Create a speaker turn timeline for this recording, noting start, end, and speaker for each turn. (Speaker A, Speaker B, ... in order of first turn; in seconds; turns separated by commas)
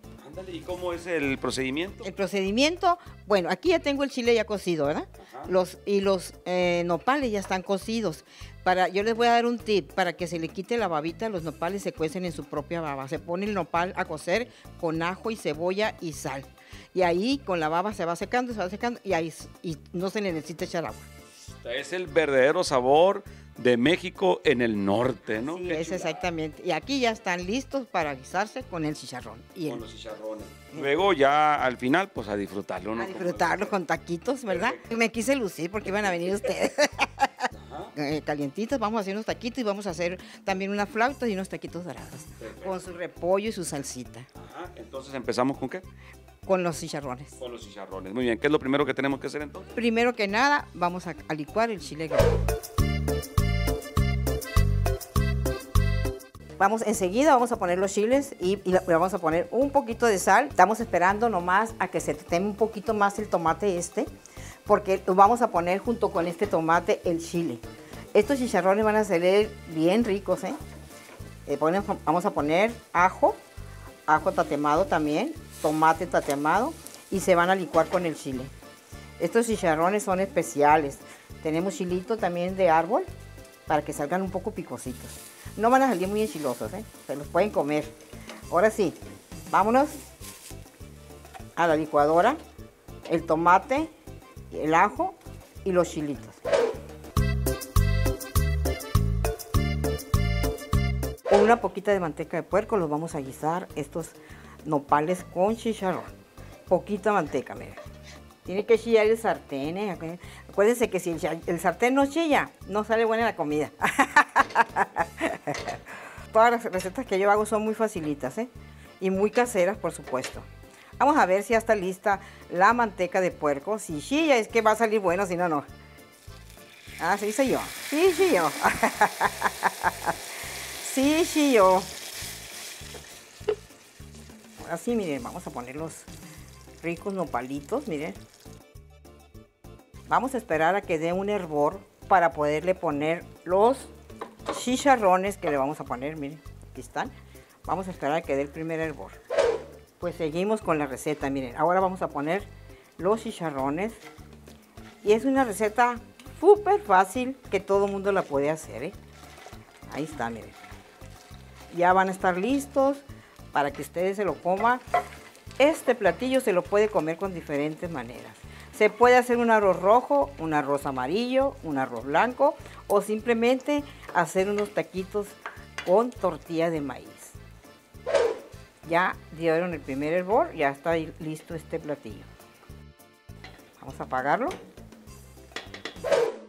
Speaker A: 0.2-2.1, Speaker B: 2.0-21.1, Speaker A: 5.2-5.5, Speaker A: 21.6-26.2, Speaker B: 25.4-29.8, Speaker A: 29.6-33.7, Speaker B: 33.0-44.3, Speaker A: 34.5-34.9, Speaker A: 37.5-37.9, Speaker A: 42.4-42.8, Speaker A: 44.4-45.8, Speaker B: 46.5-47.4, Speaker A: 47.4-49.7, Speaker B: 49.7-52.4, Speaker B: 56.6-64.1, Speaker B: 64.7-67.6, Speaker B: 68.1-70.6, Speaker B: 71.5-73.4, Speaker B: 74.1-78.5, Speaker B: 79.2-83.1, Speaker B: 83.7-87.9, Speaker B: 88.5-89.0, Speaker B: 89.5-90.0, Speaker B: 91.5-92.4, Speaker B: 93.1-93.9, Speaker B: 94.5-96.4, Speaker B: 101.3-106.1, Speaker B: 106.7-107.8, Speaker B: 108.4-115.8, Speaker B: 116.3-120.5, Speaker B: 121.0-125.7, Speaker B: 127.0-130.1, Speaker B: 130.8-131.9, Speaker B: 134.6-136.1, Speaker B: 136.8-138.2, Speaker B: 140.1-143.9, Speaker B: 144.5-147.1, Speaker B: 147.7-149.2, Speaker B: 150.0-154.0, Speaker B: 155.0-158.9, Speaker B: 159.9-160.6, Speaker B: 161.7-164.8, Speaker B: 165.6-177.3, Speaker B: 178.8-182.3, Speaker B: 183.8-184.6